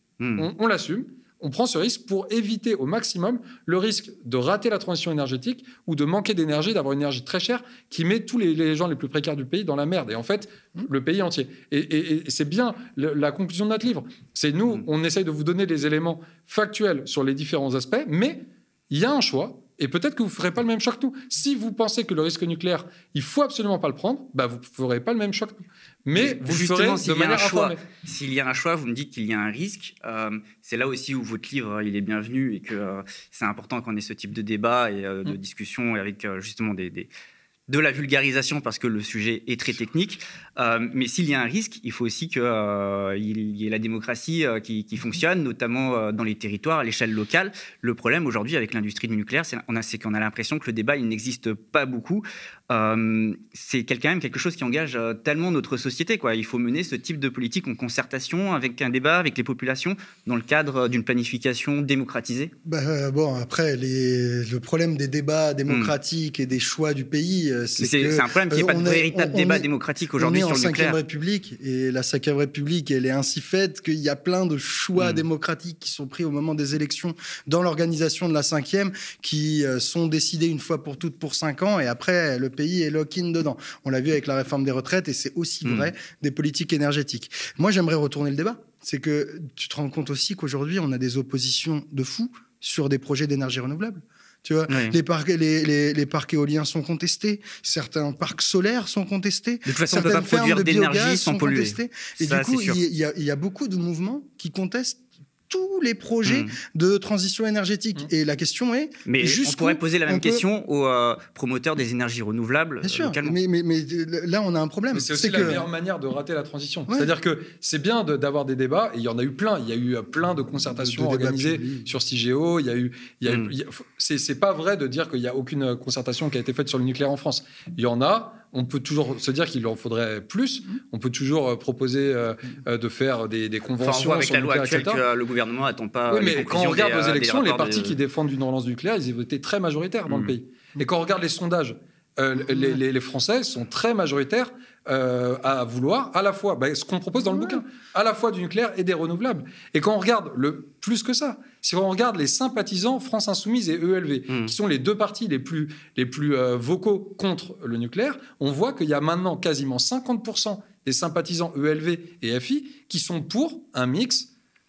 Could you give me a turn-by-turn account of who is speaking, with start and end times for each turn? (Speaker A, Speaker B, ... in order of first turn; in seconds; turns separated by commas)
Speaker A: 0.2-0.5, Speaker B: 0.4-27.8, Speaker A: 26.2-37.1, Speaker A: 37.7-62.5, Speaker C: 62.6-110.4, Speaker A: 65.7-65.9, Speaker A: 67.8-71.0, Speaker A: 75.0-75.2, Speaker A: 85.7-85.9, Speaker A: 94.7-95.0, Speaker A: 99.7-102.8, Speaker A: 106.3-106.5, Speaker A: 109.1-113.4, Speaker C: 112.8-115.7, Speaker B: 114.9-135.0, Speaker C: 120.8-121.9, Speaker A: 133.8-138.0, Speaker B: 136.1-164.3, Speaker A: 140.1-140.3, Speaker A: 154.3-154.5